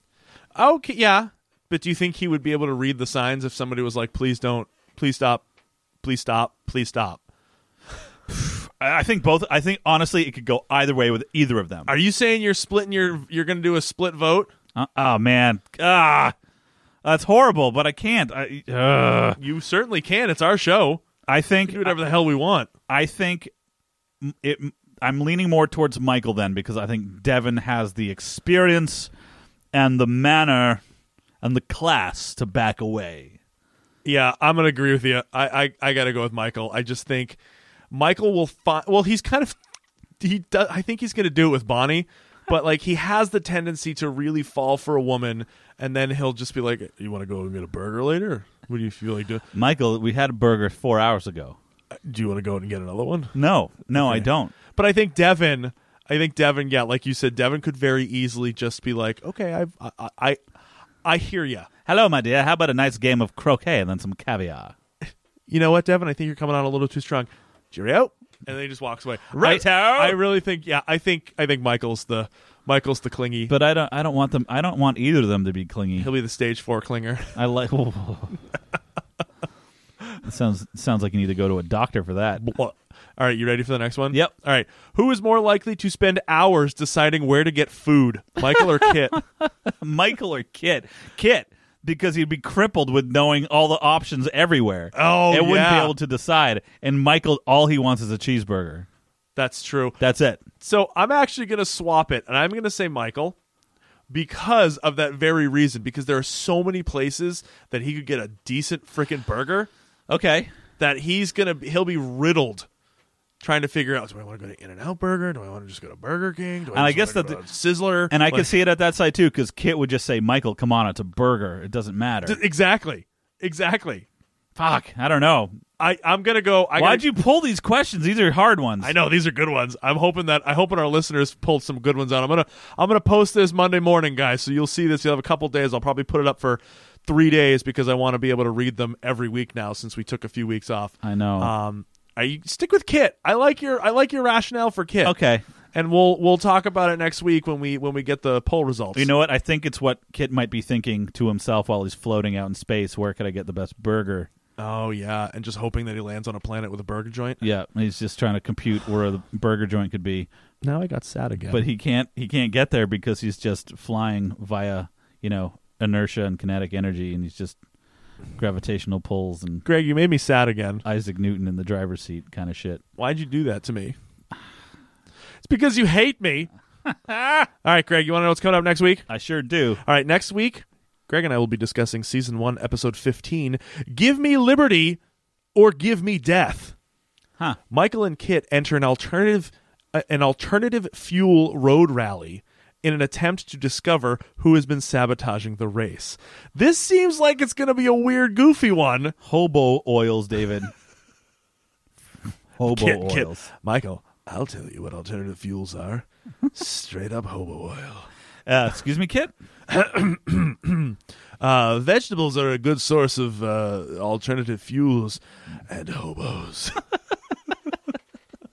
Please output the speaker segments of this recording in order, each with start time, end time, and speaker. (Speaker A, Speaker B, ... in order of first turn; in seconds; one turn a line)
Speaker A: 0.5-5.4
Speaker A: 6.0-7.2
Speaker B: 8.3-11.9
Speaker A: 11.9-14.5
Speaker B: 14.7-16.3
Speaker B: 17.0-19.4
Speaker A: 19.4-21.0
Speaker B: 21.3-22.0
Speaker A: 21.7-22.7
Speaker B: 22.9-23.5
Speaker B: 24.2-29.1
Speaker B: 29.7-30.8
Speaker B: 31.4-33.4
Speaker A: 34.0-37.4
Speaker A: 37.9-39.6
Speaker A: 40.2-49.4
Speaker B: 49.5-51.6
Speaker A: 52.0-53.3
Speaker B: 53.3-54.5
Speaker A: 53.9-60.4
Speaker A: 61.0-61.7
Speaker B: 61.9-64.7
Speaker A: 65.5-73.5
Speaker B: 69.3-70.2
Speaker B: 73.5-76.1
Speaker A: 76.0-77.3
Speaker B: 77.3-78.4
Speaker B: 80.2-82.4
Speaker A: 82.4-89.2
Speaker B: 89.1-98.9
Speaker A: 94.9-95.9
Speaker A: 99.3-100.0
Speaker B: 100.0-100.4
Speaker A: 100.6-103.4
Speaker A: 104.1-109.7
Speaker B: 110.1-110.5
Speaker A: 110.8-112.7
Speaker A: 113.4-118.6
Speaker B: 116.7-117.4
Speaker B: 118.1-122.4
Speaker A: 122.2-124.0
Speaker B: 124.5-125.6
Speaker A: 125.8-127.1
Speaker B: 126.8-128.9
Speaker A: 128.8-145.2
Speaker B: 141.0-141.5
Speaker B: 145.0-145.4
Speaker A: 145.7-149.1
Speaker B: 148.9-154.3
Speaker A: 154.6-157.4
Speaker B: 157.4-160.3
Speaker A: 160.6-161.6
Speaker B: 161.5-167.6
Speaker B: 168.3-169.6
Speaker A: 169.6-170.8
Speaker B: 170.8-172.8
Speaker A: 173.0-173.9
Speaker A: 175.4-176.5
Speaker B: 176.8-177.5
Speaker A: 177.6-179.1
Speaker B: 179.1-179.8
Speaker A: 179.8-185.0
Speaker A: 185.5-186.7
Speaker A: 187.7-199.1
Speaker B: 199.2-200.7
Speaker B: 202.6-203.5
Speaker A: 202.6-208.1
Speaker B: 208.4-209.3
Speaker A: 209.7-216.8